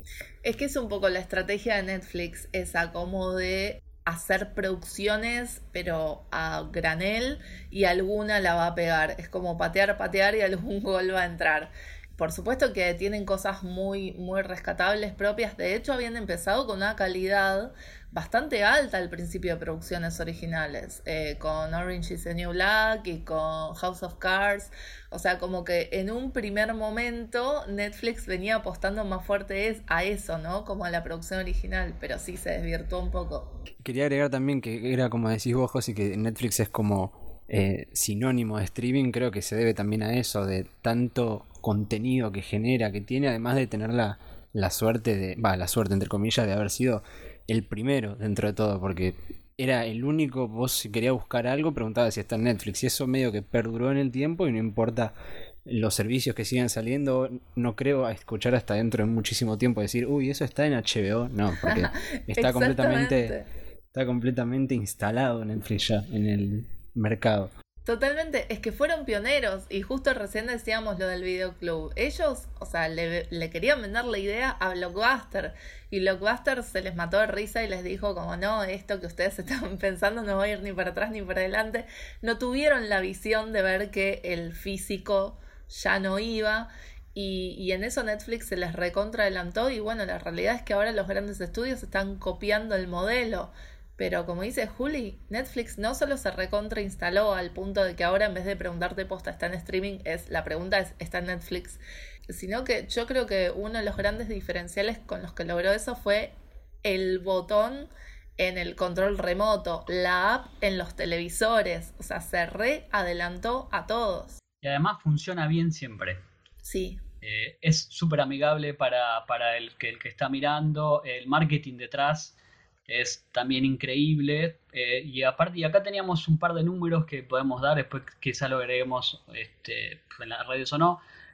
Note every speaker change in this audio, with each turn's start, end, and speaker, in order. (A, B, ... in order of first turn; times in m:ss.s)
0:00.4-0:33.6 A
0:33.8-0:55.1 B
0:55.6-1:03.4 B
1:01.6-1:03.4 A
1:03.9-1:07.5 B
1:07.8-1:54.4 A
1:54.6-1:56.2 C
1:56.6-1:57.0 A
1:57.2-2:02.3 C
2:02.9-2:11.0 C